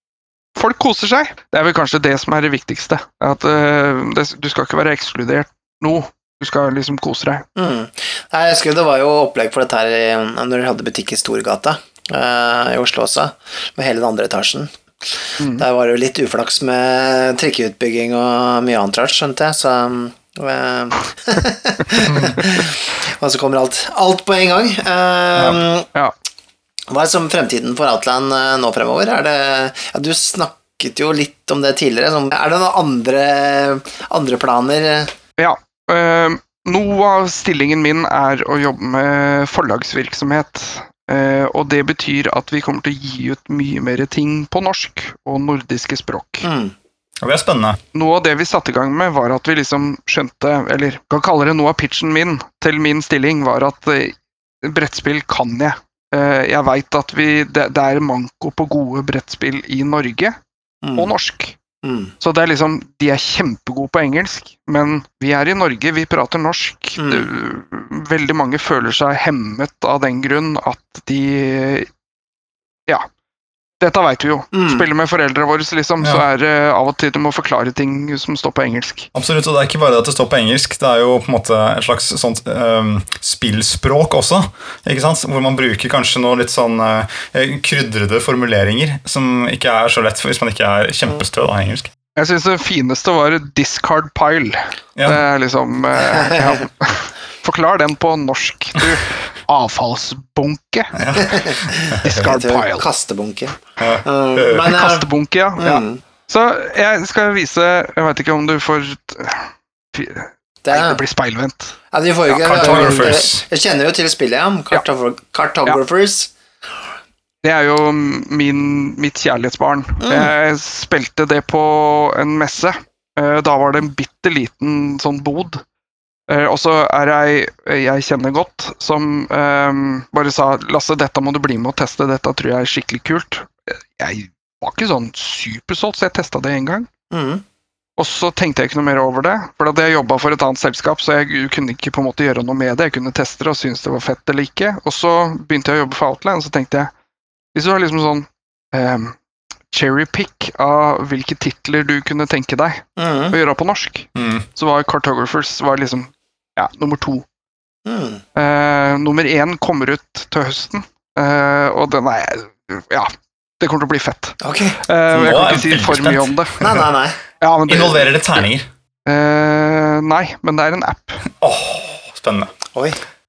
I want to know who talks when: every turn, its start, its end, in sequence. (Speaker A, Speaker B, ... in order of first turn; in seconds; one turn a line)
Speaker A: 0.6-7.5
Speaker B: 7.6-25.9
Speaker A: 15.4-15.7
Speaker C: 22.1-22.4
Speaker B: 26.9-35.1
Speaker A: 35.4-46.5
Speaker B: 46.4-46.8
Speaker C: 47.2-47.8
Speaker A: 47.9-60.4
Speaker B: 60.8-61.1
Speaker A: 61.0-61.6
Speaker B: 61.8-62.1
Speaker A: 62.2-71.9
Speaker B: 67.0-67.3
Speaker A: 73.8-79.1
Speaker B: 74.5-74.9
Speaker C: 79.1-91.9
Speaker A: 92.2-101.0
Speaker C: 95.0-95.2
Speaker B: 96.2-96.5
Speaker C: 101.0-102.2
Speaker B: 101.4-105.1
Speaker A: 102.0-102.9
Speaker C: 103.8-104.7
Speaker A: 104.7-111.8
Speaker B: 105.6-106.0
Speaker B: 110.6-111.0
Speaker B: 111.9-116.3
Speaker C: 112.3-113.4
Speaker A: 112.5-113.1
Speaker A: 117.4-125.6
Speaker B: 120.0-120.3
Speaker A: 126.3-136.9
Speaker B: 137.1-137.4
Speaker A: 138.0-146.9
Speaker A: 147.6-149.2
Speaker A: 149.7-157.2
Speaker B: 153.0-153.4
Speaker C: 154.2-154.5
Speaker B: 157.9-158.2
Speaker A: 158.4-166.6
Speaker B: 164.4-164.8
Speaker C: 165.1-166.8
Speaker B: 166.6-167.2
Speaker A: 167.4-168.5
Speaker C: 167.7-168.7
Speaker A: 169.1-171.2
Speaker C: 171.4-172.5
Speaker B: 172.7-173.0